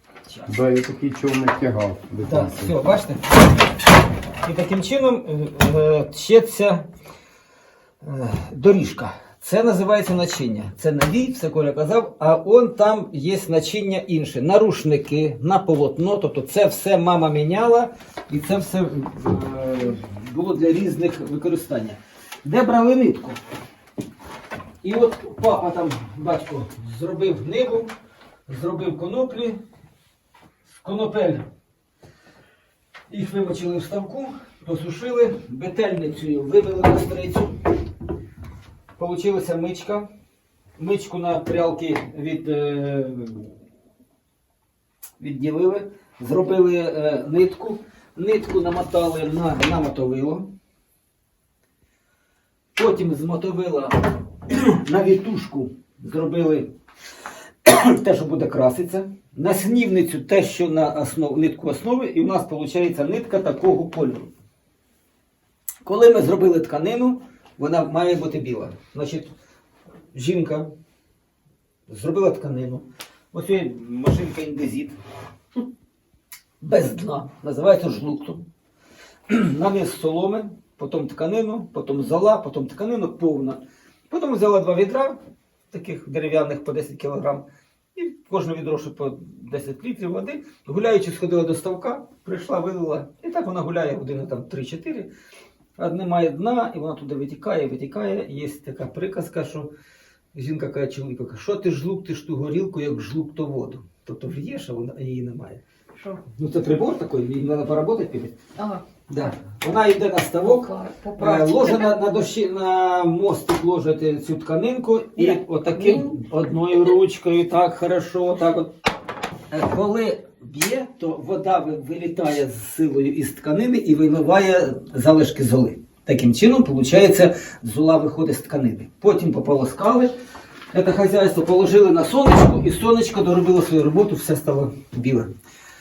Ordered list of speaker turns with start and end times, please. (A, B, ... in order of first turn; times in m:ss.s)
0:00.2-0:00.6 A
0:00.5-0:02.8 B
0:02.2-0:03.5 A
0:04.4-0:06.9 A
0:08.0-0:23.4 A
0:24.8-0:27.9 A
0:28.5-0:29.6 A
0:30.8-0:31.5 A
0:33.1-0:37.6 A
0:39.0-0:40.1 A
0:40.8-0:43.5 A
0:45.2-0:50.5 A
0:52.8-0:56.7 A
0:57.6-1:04.3 A
1:05.8-1:09.3 A
1:10.1-1:10.7 A
1:11.9-1:15.0 A
1:16.6-1:18.4 A
1:19.3-1:25.2 A
1:25.7-1:35.1 A
1:35.8-1:39.7 A
1:40.3-1:45.6 A
1:46.4-1:48.4 A
1:48.6-1:48.8 C
1:49.1-1:58.7 A
1:50.4-1:51.9 C
1:55.2-1:56.2 C
1:59.5-2:10.1 A
2:10.7-2:15.3 A